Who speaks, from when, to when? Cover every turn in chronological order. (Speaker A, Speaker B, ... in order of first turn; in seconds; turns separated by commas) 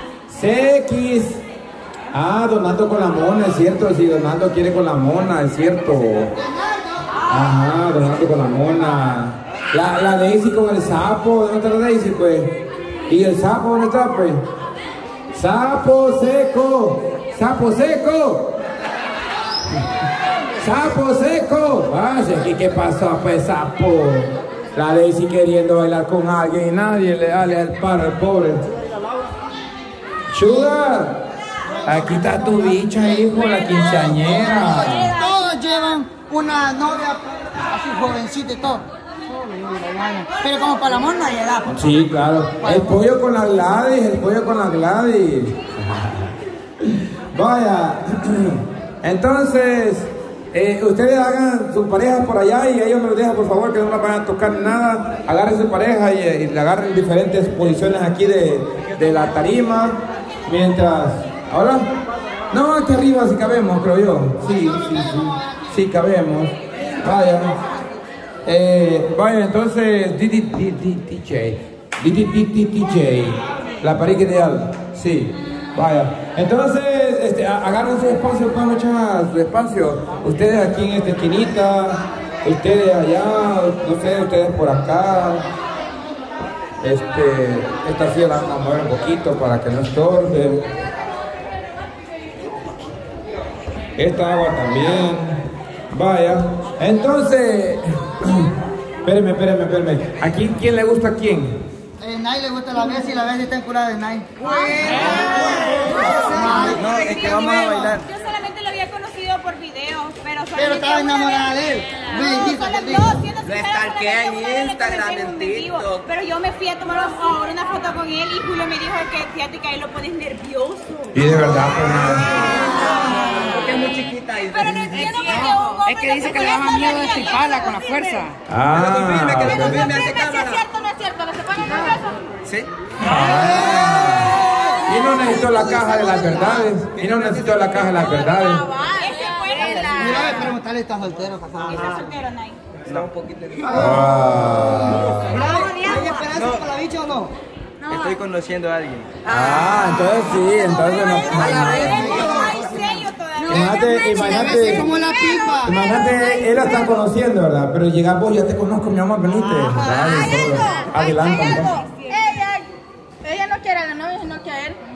Speaker A: 0.3-1.4, Speaker A: 2.1-6.3, Speaker A: 7.3-12.6, Speaker A: 13.1-14.4, Speaker A: 15.3-18.5, Speaker A: 20.6-28.6, Speaker A: 30.3-31.2, Speaker A: 31.8-35.1, Speaker B: 35.1-38.8, Speaker B: 39.4-41.7, Speaker A: 41.6-46.2, Speaker A: 46.8-61.9, Speaker A: 62.5-67.5, Speaker A: 68.4-85.5, Speaker A: 86.8-90.7, Speaker A: 94.0-98.5, Speaker A: 99.0-101.6, Speaker B: 102.0-106.9, Speaker C: 105.4-105.8, Speaker D: 106.8-108.0, Speaker C: 106.8-121.1, Speaker B: 107.5-107.9, Speaker B: 110.6-113.2, Speaker D: 113.6-115.8, Speaker A: 121.1-122.4, Speaker D: 123.4-125.1, Speaker C: 124.7-128.1, Speaker D: 125.9-128.1, Speaker A: 128.5-130.1, Speaker D: 129.0-130.6, Speaker C: 130.2-131.8, Speaker A: 133.0-138.7, Speaker C: 139.0-140.4, Speaker B: 139.8-142.0, Speaker C: 141.7-142.6, Speaker D: 142.9-143.6, Speaker A: 143.7-145.4, Speaker B: 145.3-147.3, Speaker D: 147.9-149.2, Speaker A: 149.2-152.2, Speaker B: 151.8-153.0, Speaker C: 152.1-153.5, Speaker A: 153.4-154.9, Speaker B: 153.7-155.7, Speaker A: 155.6-161.8, Speaker C: 162.1-162.5